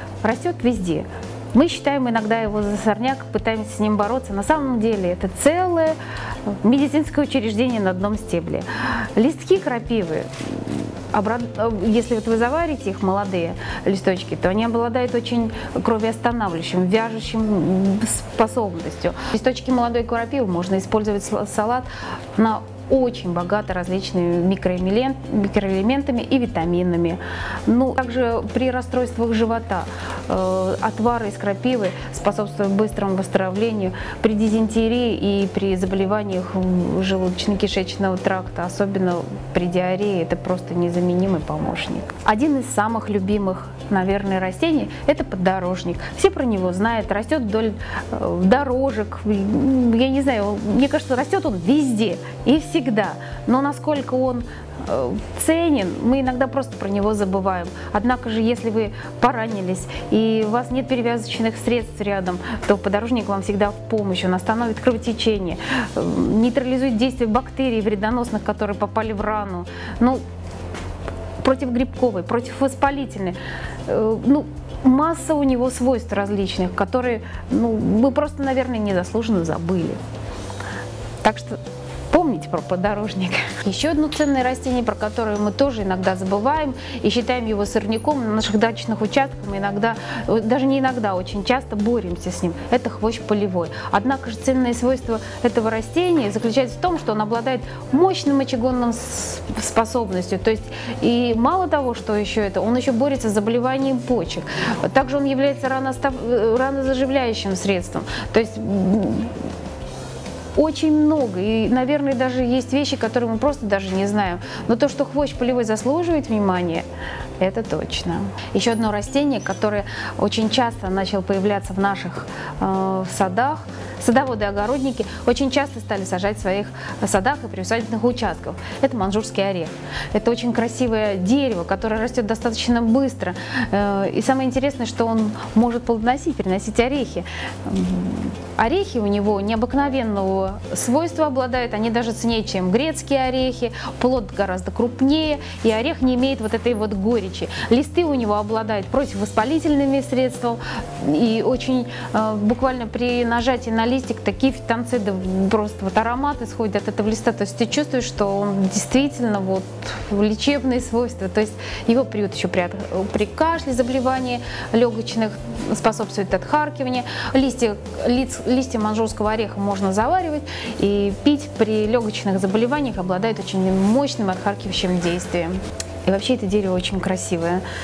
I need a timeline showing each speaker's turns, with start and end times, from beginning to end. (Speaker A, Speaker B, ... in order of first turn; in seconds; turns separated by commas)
Speaker A: 0.2-6.0, Speaker A: 6.6-70.2, Speaker A: 71.4-80.0, Speaker A: 81.2-109.4, Speaker A: 110.5-116.9, Speaker A: 117.4-177.7